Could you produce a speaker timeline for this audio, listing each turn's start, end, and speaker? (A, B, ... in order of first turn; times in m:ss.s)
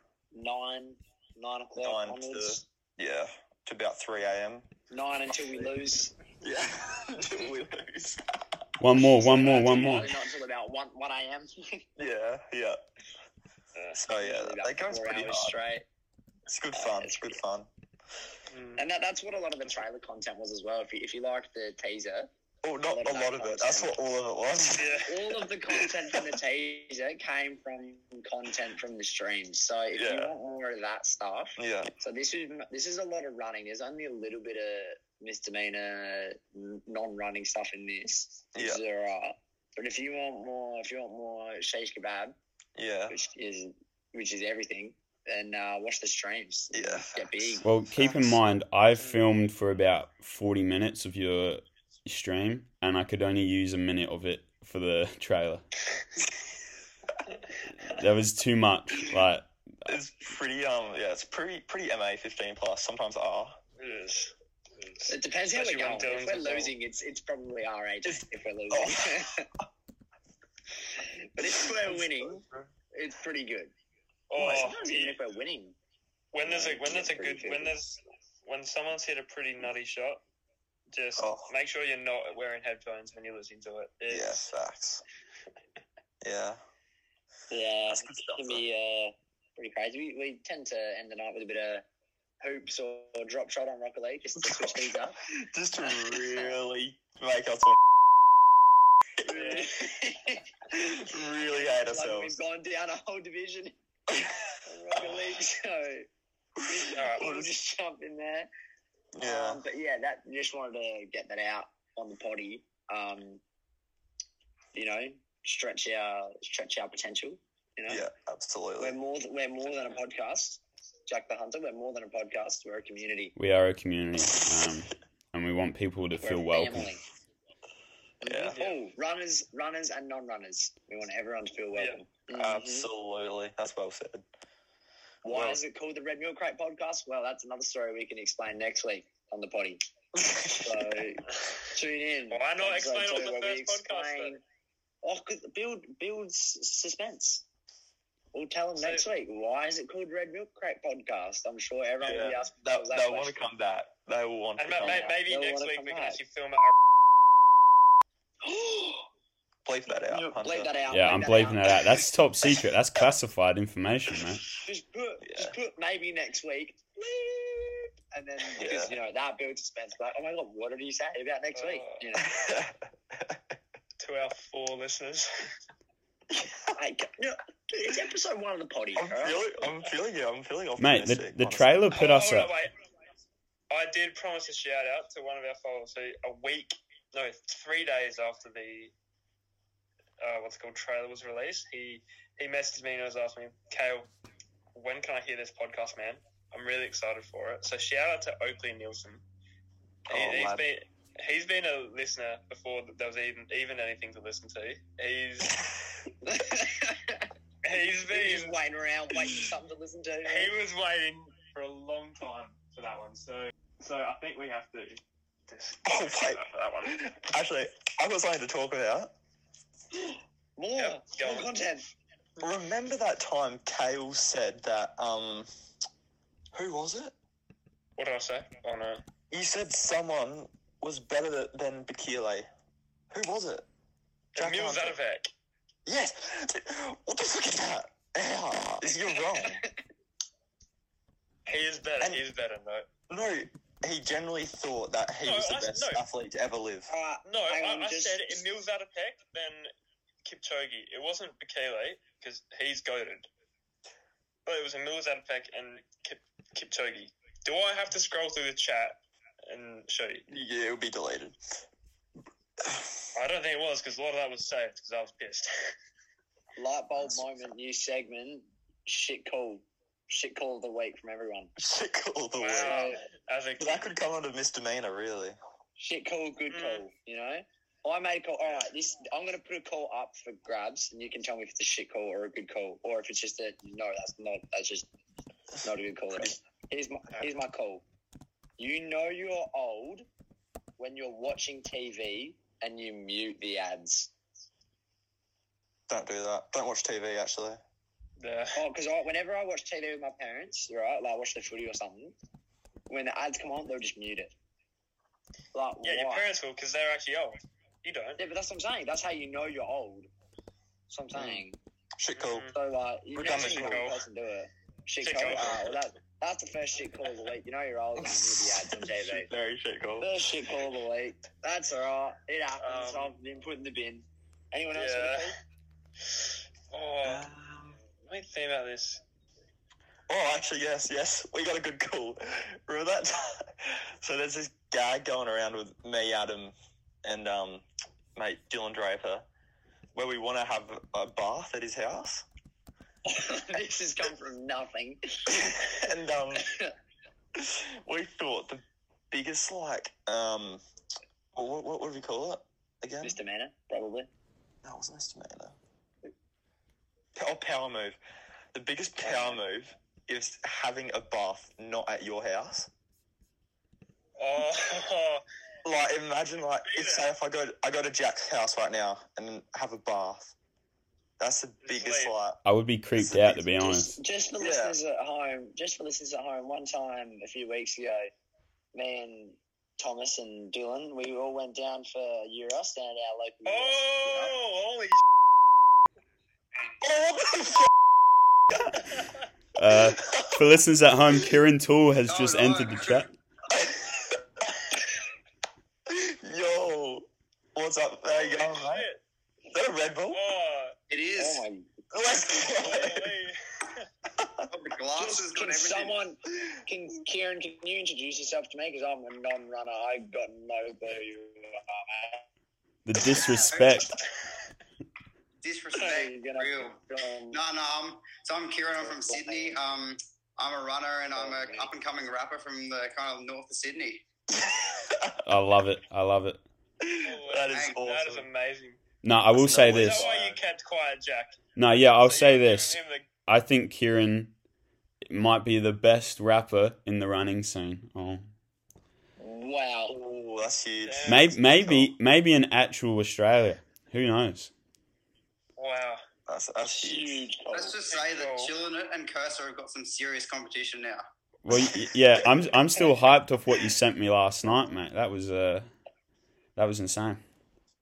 0:00.3-0:02.6 A
0:01.8-0:04.7 B
0:04.9-0:06.1 A
0:05.3-0:05.7 B
0:06.4-0:08.6 B
0:08.8-0:10.1 C
0:09.2-0:11.9 A
0:12.0-0:12.8 B
0:14.0-0:15.6 B
0:14.2-0:15.8 A
0:16.5-0:17.7 B
0:16.7-0:17.4 A
0:18.5-0:18.8 D
0:18.8-0:22.3 A
0:22.6-0:25.1 B
0:22.9-0:24.0 A
0:24.7-0:25.2 D
0:25.1-0:42.4 A
0:25.7-0:26.3 B
0:29.9-0:30.3 B
0:31.6-0:31.9 B
0:38.6-0:38.8 B
0:42.8-0:43.2 B
0:43.1-0:47.7 A
0:46.7-0:48.4 B
0:47.6-0:55.6 C
0:49.0-0:49.2 D
0:57.8-0:59.5 C
0:59.9-1:03.6 B
1:03.8-1:06.7 D
1:05.1-1:09.5 A
1:08.0-1:09.3 B
1:11.0-1:12.4 A
1:11.4-1:12.5 B
1:12.9-1:13.7 A
1:14.3-1:15.2 D
1:14.4-1:14.6 B
1:14.4-1:15.8 A
1:16.3-1:20.2 D
1:16.4-1:17.7 A
1:20.9-1:24.4 D
1:21.2-1:21.5 B
1:24.1-1:25.0 B
1:26.2-1:26.6 B
1:27.5-1:31.8 A
1:27.9-1:28.6 B
1:32.4-1:35.2 A
1:34.4-1:37.8 B
1:35.9-1:36.5 A
1:39.2-1:43.8 A
1:39.3-1:39.7 D
1:40.7-1:42.4 B
1:44.7-1:46.1 A
1:46.6-1:47.5 B
1:46.6-1:48.5 A
1:46.9-1:47.4 D
1:49.2-1:49.6 B
1:49.2-1:53.4 A
1:54.7-1:58.1 A
1:57.9-1:59.0 B
1:58.8-2:03.4 A
2:03.4-2:06.9 C
2:06.2-2:07.0 A
2:08.2-2:12.9 A
2:08.2-2:08.6 B
2:08.6-2:08.8 D
2:11.7-2:12.0 D
2:12.3-2:14.2 B
2:15.2-2:19.8 A
2:15.3-2:15.6 D
2:20.2-2:21.1 B
2:20.5-2:24.4 A
2:22.3-2:24.4 D
2:25.0-2:27.4 A
2:28.3-2:33.4 A
2:28.8-2:29.1 D
2:32.0-2:35.2 B
2:34.6-2:36.7 D
2:34.8-2:36.2 A
2:38.4-2:39.1 A
2:39.6-2:40.8 B
2:40.1-2:41.8 A
2:40.9-2:44.5 C
2:44.6-2:52.4 A
2:45.2-2:45.6 B
2:48.6-2:49.0 B
2:51.6-2:52.0 D
2:52.2-2:53.4 B
2:54.0-2:55.3 D
2:56.3-2:56.8 B
2:56.8-2:59.4 A
2:59.0-3:01.8 B
3:00.8-3:02.5 C
3:01.9-3:02.7 D
3:03.7-3:08.9 D
3:10.2-3:14.1 D
3:14.7-3:19.2 D
3:20.1-3:20.7 B
3:20.1-3:25.6 D
3:26.2-3:27.3 A
3:27.6-3:28.6 D
3:28.1-3:30.5 A
3:30.2-3:37.1 D
3:35.8-3:39.1 B
3:40.6-3:41.8 A
3:40.8-3:41.5 D
3:42.4-3:45.5 B
3:46.5-3:47.1 B
3:48.0-3:49.0 D
3:49.3-3:52.5 B
3:53.1-3:53.7 B
3:54.4-3:55.3 D
3:54.4-3:55.0 B
3:55.9-3:59.6 B
3:58.9-3:59.8 A
4:01.5-4:02.9 D
4:03.1-4:06.9 B
4:05.2-4:06.0 D
4:06.9-4:08.4 A
4:07.2-4:09.7 D
4:10.2-4:13.3 D
4:14.5-4:20.3 D
4:20.3-4:21.4 B
4:22.6-4:23.0 B
4:23.1-4:25.7 D
4:26.6-4:31.5 A
4:27.0-4:27.4 B
4:31.6-4:32.9 B
4:32.4-4:33.9 D
4:32.6-4:33.0 A
4:33.6-4:35.4 B
4:35.8-4:44.9 A
4:36.5-4:36.8 D
4:45.6-4:47.8 A
4:48.6-4:50.1 A
4:50.8-4:54.1 A
4:55.9-4:57.6 B
4:58.2-4:58.6 D
4:58.5-5:02.2 A
5:02.9-5:04.4 A
5:05.5-5:06.3 A
5:05.8-5:08.2 D
5:08.2-5:10.1 A
5:10.9-5:11.6 A
5:11.1-5:11.4 B
5:12.0-5:12.5 B
5:12.2-5:12.6 D
5:12.5-5:19.3 A
5:13.1-5:13.9 B
5:13.2-5:14.0 D
5:15.0-5:15.8 D
5:18.0-5:20.3 B
5:20.0-5:25.4 A
5:22.6-5:23.2 D
5:24.7-5:25.3 D
5:26.1-5:27.3 D
5:27.0-5:27.8 B
5:28.0-5:29.0 D
5:30.1-5:37.6 B
5:38.2-5:39.3 B
5:39.9-5:42.2 B
5:43.1-5:45.6 A
5:45.3-5:46.5 B
5:46.4-5:46.7 A
5:47.4-5:50.6 B
5:51.3-5:53.2 B
5:53.0-5:54.1 A
5:54.6-5:55.6 B
5:57.2-5:58.0 B
5:58.5-6:02.7 B
5:59.0-5:59.4 A
6:04.2-6:05.2 D
6:05.6-6:10.4 B
6:06.7-6:07.0 D
6:11.2-6:12.4 B
6:11.6-6:12.2 D
6:12.4-6:14.0 C
6:13.0-6:13.4 B
6:13.1-6:18.1 A
6:14.4-6:14.8 B
6:18.7-6:24.4 A
6:23.4-6:25.0 D
6:26.8-6:27.7 B
6:29.6-6:33.1 C
6:29.8-6:30.4 B
6:32.1-6:33.1 E
6:33.5-6:34.6 B
6:35.9-6:38.9 B
6:38.1-6:39.0 D
6:39.5-6:40.2 B
6:40.1-6:40.8 D
6:40.9-6:41.4 E
6:41.2-6:41.7 A
6:41.9-6:43.2 B
6:42.4-6:43.9 D
6:44.2-6:44.5 B
6:44.5-6:46.0 E
6:45.0-6:52.2 A
6:52.8-6:53.9 C
6:53.5-6:53.8 E
6:55.4-7:04.0 E
6:55.8-6:57.4 A
6:58.8-6:59.6 A
7:01.2-7:01.7 A
7:04.3-7:05.2 B
7:05.2-7:06.4 C
7:06.8-7:08.3 B
7:07.0-7:08.8 D
7:07.5-7:07.8 E
7:09.0-7:10.1 C
7:09.3-7:10.4 B
7:09.6-7:11.4 D
7:11.6-7:14.3 C
7:12.0-7:13.1 D
7:15.1-7:18.3 C
7:19.2-7:20.0 A
7:19.9-7:21.9 B
7:20.8-7:21.3 D
7:21.1-7:24.5 C
7:25.6-7:26.0 D
7:26.3-7:27.3 B
7:26.6-7:27.8 A
7:27.5-7:31.0 E
7:27.9-7:28.5 D
7:31.4-7:35.7 C
7:36.6-7:37.2 C